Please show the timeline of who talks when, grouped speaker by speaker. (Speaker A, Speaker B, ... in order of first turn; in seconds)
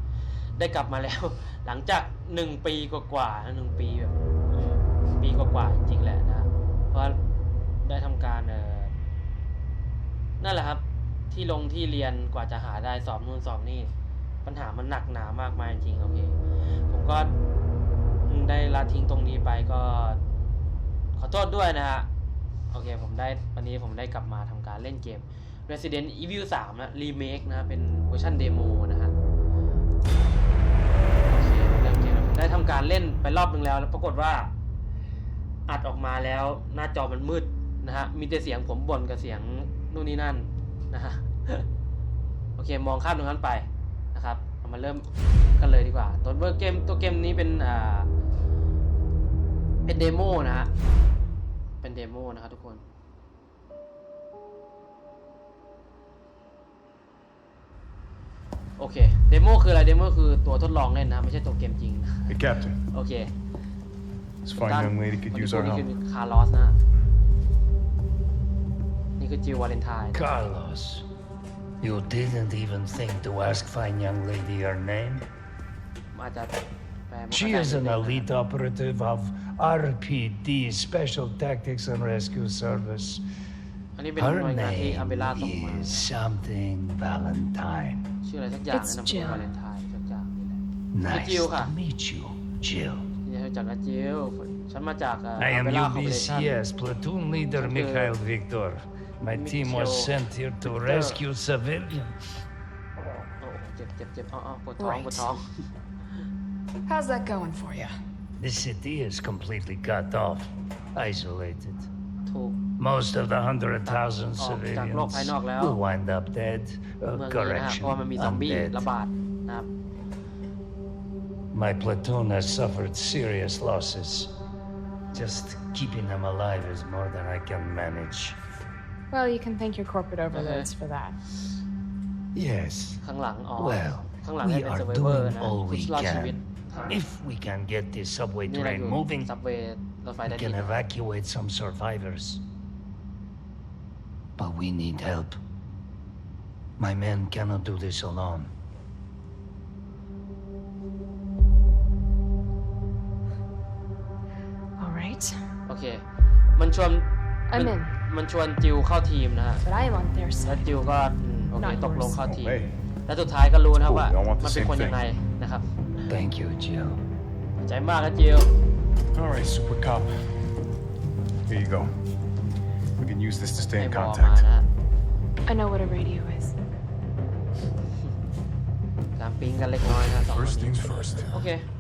Speaker A: 0.6-7.2, 7.8-8.9, 10.4-13.9, 14.4-16.4, 16.9-17.3, 18.3-20.2, 21.2-22.1, 22.7-29.1, 31.3-34.5, 35.7-41.7, 42.6-45.1, 45.6-48.1, 49.9-50.7, 51.8-52.8, 58.8-62.3, 62.9-63.3, 64.6-66.8, 69.2-70.4, 76.1-78.3, 84.0-86.1, 88.2-91.7, 93.2-96.5, 97.5-98.1, 99.3-101.2, 103.4-105.5, 112.3-112.6, 113.8-115.8, 117.1-119.7, 130.3-130.7, 133.0-137.0, 138.5-140.8, 155.7-156.0, 156.6-159.7, 160.4-165.7, 167.6-168.5, 173.8-174.7, 179.2-181.7
Speaker B: 62.3-62.8, 64.4-65.9, 162.2-162.7, 163.7-165.0, 169.1-170.1, 171.5-171.9, 173.0-174.5, 179.8-181.5
Speaker C: 70.1-71.0, 71.8-75.2, 77.3-83.2, 84.2-88.1, 90.9-93.0, 95.4-102.2, 108.4-111.9, 112.8-118.9, 121.5-124.3, 125.1-128.4, 132.3-133.0, 133.6-139.3, 140.2-142.4, 144.4-145.4, 146.8-148.5, 166.1-167.0
Speaker D: 88.7-89.4, 104.8-105.2, 106.9-107.9, 129.1-131.2, 154.8-155.4, 157.5-157.9, 159.7-160.6, 161.6-162.2, 175.5-176.5